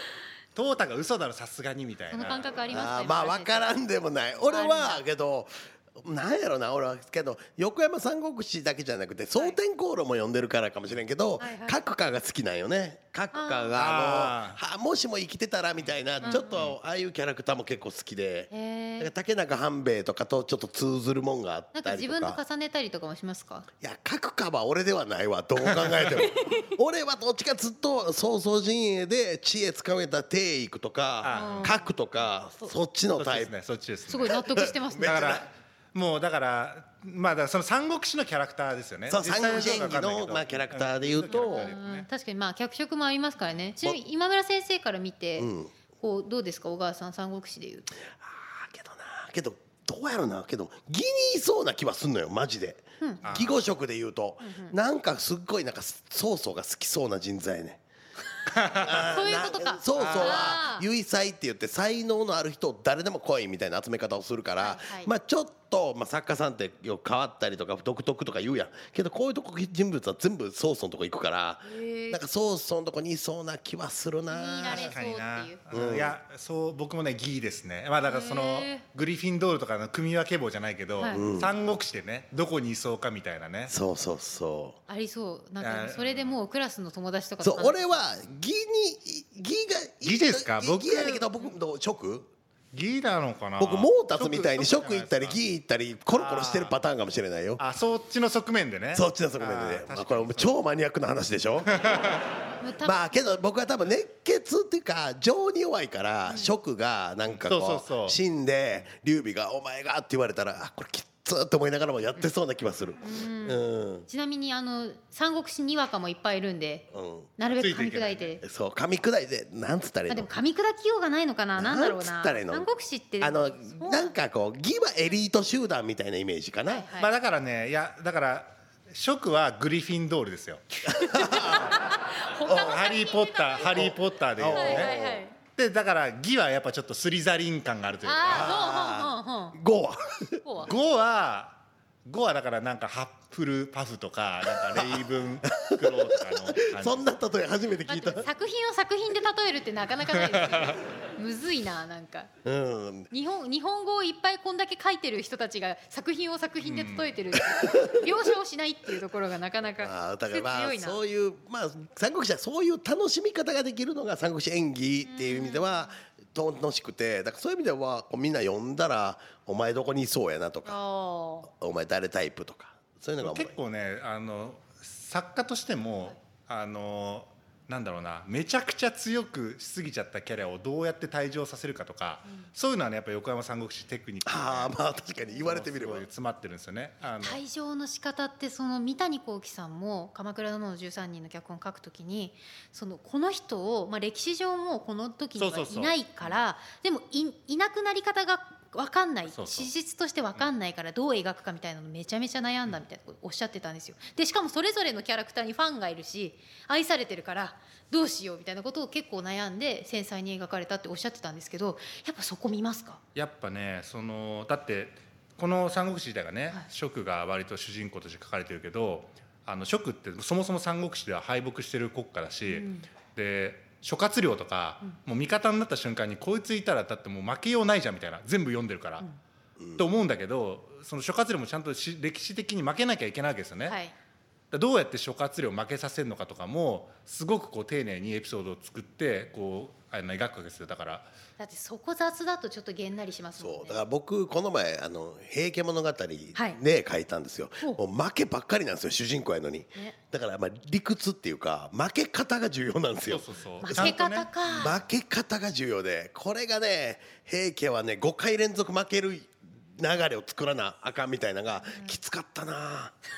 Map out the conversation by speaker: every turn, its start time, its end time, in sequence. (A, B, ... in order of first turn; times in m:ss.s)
0:00.5-0:02.6 A
0:02.1-0:03.7 B
0:02.7-0:22.4 C
0:04.5-0:05.0 B
0:11.4-0:11.8 B
0:13.3-0:13.7 B
0:13.8-0:14.6 A
0:16.2-0:16.8 A
0:16.2-0:16.6 B
0:18.5-0:19.1 B
0:21.8-0:23.7 B
0:23.8-0:33.5 C
0:25.7-0:26.3 A
0:26.2-0:26.7 B
0:31.2-0:31.8 A
0:31.3-0:31.9 B
0:33.2-0:34.4 A
0:34.1-0:35.3 B
0:34.3-0:35.5 C
0:35.0-0:42.1 A
0:39.1-0:41.7 C
0:41.3-0:47.9 B
0:45.4-0:45.7 C
0:48.1-0:57.8 C
0:53.2-0:53.6 A
0:54.4-0:54.8 B
0:58.5-0:59.0 A
0:58.8-1:15.0 C
0:58.8-1:00.9 B
0:59.9-1:00.6 A
1:04.6-1:05.1 B
1:11.6-1:12.2 B
1:14.3-1:15.6 B
1:14.7-1:23.7 A
1:15.7-1:16.2 C
1:18.1-1:18.8 B
1:21.0-1:21.2 B
1:21.1-1:21.5 C
1:23.7-1:24.8 C
1:24.9-1:28.0 B
1:25.6-1:26.4 A
1:27.4-1:32.3 C
1:30.0-1:31.3 A
1:32.7-1:35.4 A
1:33.6-1:37.6 C
1:36.1-1:36.8 A
1:37.6-1:40.6 A
1:38.9-1:41.7 C
1:41.7-1:42.2 A
1:42.6-1:43.1 B
1:42.8-1:54.1 C
1:47.3-1:48.2 A
1:53.0-1:56.9 B
1:56.9-1:57.3 C
1:57.4-1:58.4 B
1:57.6-1:58.3 A
1:58.4-2:00.3 C
2:00.1-2:04.1 B
2:01.6-2:02.7 C
2:03.2-2:06.9 C
2:06.7-2:07.1 B
2:07.0-2:10.7 A
2:10.8-2:13.8 B
2:10.9-2:11.8 C
2:12.5-2:18.6 A
2:13.7-2:15.2 C
2:14.5-2:15.3 B
2:18.0-2:19.6 B
2:18.2-2:20.4 C
2:20.4-2:20.7 B
2:20.6-2:27.1 A
2:24.6-2:28.3 C
2:27.9-2:32.3 B
2:30.1-2:30.8 A
2:32.4-2:33.1 C
2:33.1-2:41.0 B
2:36.6-2:37.2 A
2:37.5-2:38.0 C
2:39.8-2:50.8 C
2:45.0-2:45.9 B
2:50.6-2:51.5 B
2:51.5-2:53.5 C
2:53.2-3:07.4 A
3:04.2-3:06.1 C
3:07.2-3:33.0 B
3:15.4-3:16.4 A
3:19.3-3:19.7 A
3:33.2-3:49.0 A
3:42.5-3:42.9 B
3:49.6-3:49.8 C
3:49.8-3:53.8 A
3:53.7-3:53.9 B
3:54.5-4:01.1 A
4:01.4-4:03.8 B
4:03.4-4:14.0 C
4:13.1-4:14.7 A
4:13.6-4:14.8 B
4:14.6-4:23.0 C
4:21.7-4:21.9 B